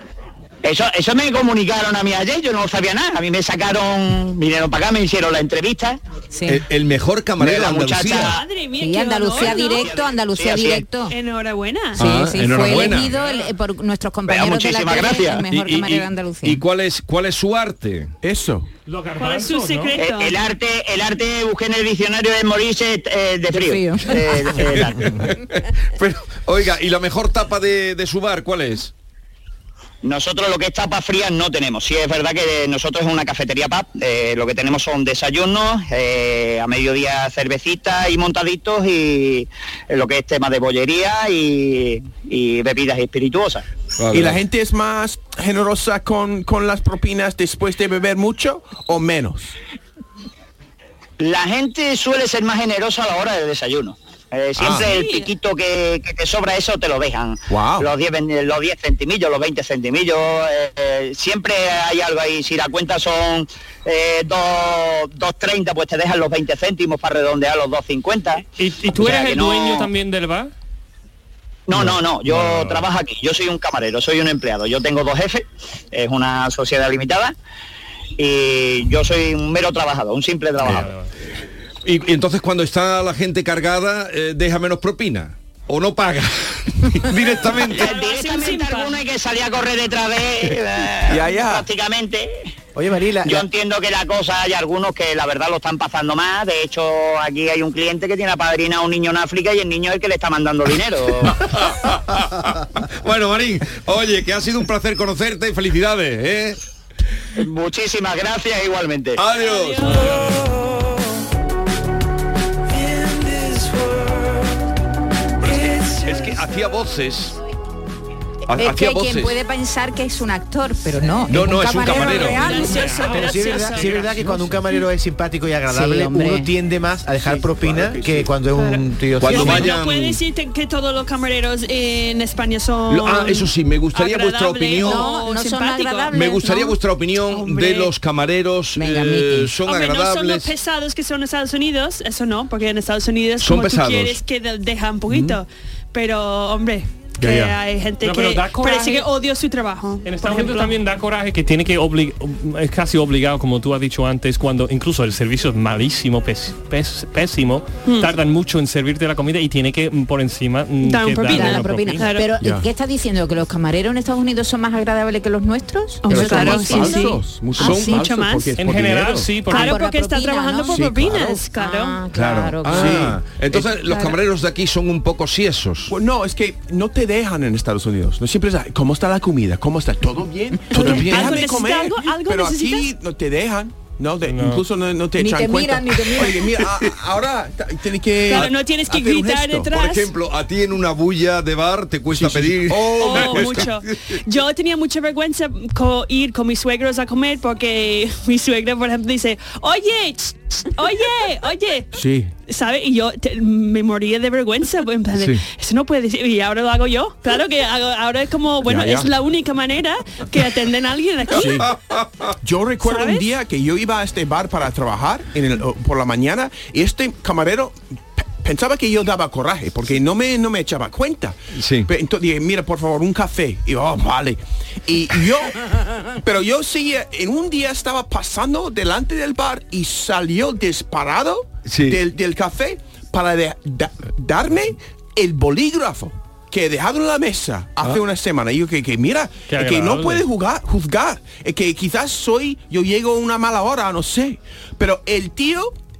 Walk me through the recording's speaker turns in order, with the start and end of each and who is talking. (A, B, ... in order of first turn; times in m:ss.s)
0:00.6-0:06.0 A
0:06.3-0:06.6 B
0:06.4-0:08.4 C
0:07.4-0:08.4 A
0:08.1-0:09.9 D
0:08.8-0:11.1 B
0:09.5-0:10.8 A
0:11.1-0:12.0 D
0:12.0-0:13.1 C
0:12.0-0:16.6 B
0:12.9-0:13.4 E
0:14.3-0:15.4 A
0:15.4-0:18.1 C
0:18.2-0:18.7 F
0:18.8-0:20.0 E
0:19.2-0:20.4 D
0:20.0-0:25.3 A
0:23.5-0:24.1 B
0:24.6-0:28.9 C
0:30.0-0:43.6 A
0:44.0-0:44.4 C
0:44.1-0:49.5 F
0:51.2-1:09.9 A
0:54.6-0:54.9 F
0:54.7-0:55.3 D
0:57.5-0:57.9 F
1:08.6-1:10.5 E
1:11.7-1:17.3 A
1:11.8-1:12.8 E
1:18.2-1:20.9 A
1:20.6-1:21.1 E
1:21.8-1:27.9 C
1:27.6-1:32.3 A
1:27.7-1:29.0 D
1:31.1-1:31.7 F
1:32.7-1:33.4 G
1:33.2-1:41.4 A
1:41.3-1:46.6 C
1:47.4-1:49.2 A
1:49.2-1:50.2 C
1:49.4-1:50.3 D
1:55.9-1:57.4 C
1:58.5-1:59.4 C
1:58.5-2:03.4 B
2:01.3-2:02.6 C
2:01.8-2:04.1 D
2:02.8-2:03.1 E
2:03.1-2:09.7 G
2:05.7-2:06.5 B
2:07.2-2:08.3 F
2:09.2-2:10.2 C
2:09.2-2:17.9 D
2:12.9-2:15.1 C
2:14.8-2:16.8 B
2:16.1-2:20.5 C
2:18.7-2:19.5 B
2:19.6-2:30.8 D
2:23.4-2:24.2 C
2:25.1-2:25.4 F
2:27.2-2:27.5 F
2:28.0-2:29.0 E
2:30.0-2:42.1 E
2:40.8-2:42.3 D
2:41.3-2:48.1 B
2:42.4-2:42.7 F
2:46.0-2:48.5 D
2:46.0-2:49.5 F
2:48.6-2:49.7 E
2:49.4-2:53.2 B
2:49.5-2:52.0 D
2:50.7-2:51.4 F
2:52.1-2:55.9 C
2:52.6-2:53.7 F
2:53.8-2:54.2 B
2:55.9-3:09.7 F
3:00.7-3:02.9 D
3:00.8-3:01.3 B
3:04.2-3:04.6 E
3:05.2-3:06.5 B
3:08.3-3:10.1 D
3:09.7-3:13.7 C
3:12.1-3:13.7 F
3:13.0-3:21.9 D
3:21.9-3:22.3 F
3:22.5-3:31.7 D
3:25.1-3:25.4 C
3:28.6-3:29.1 F
3:31.3-3:31.7 F
3:31.4-3:32.3 C
3:32.4-4:05.7 F
3:32.8-3:33.3 D
3:41.5-3:41.9 C
3:51.6-3:52.0 C
3:59.5-4:00.2 E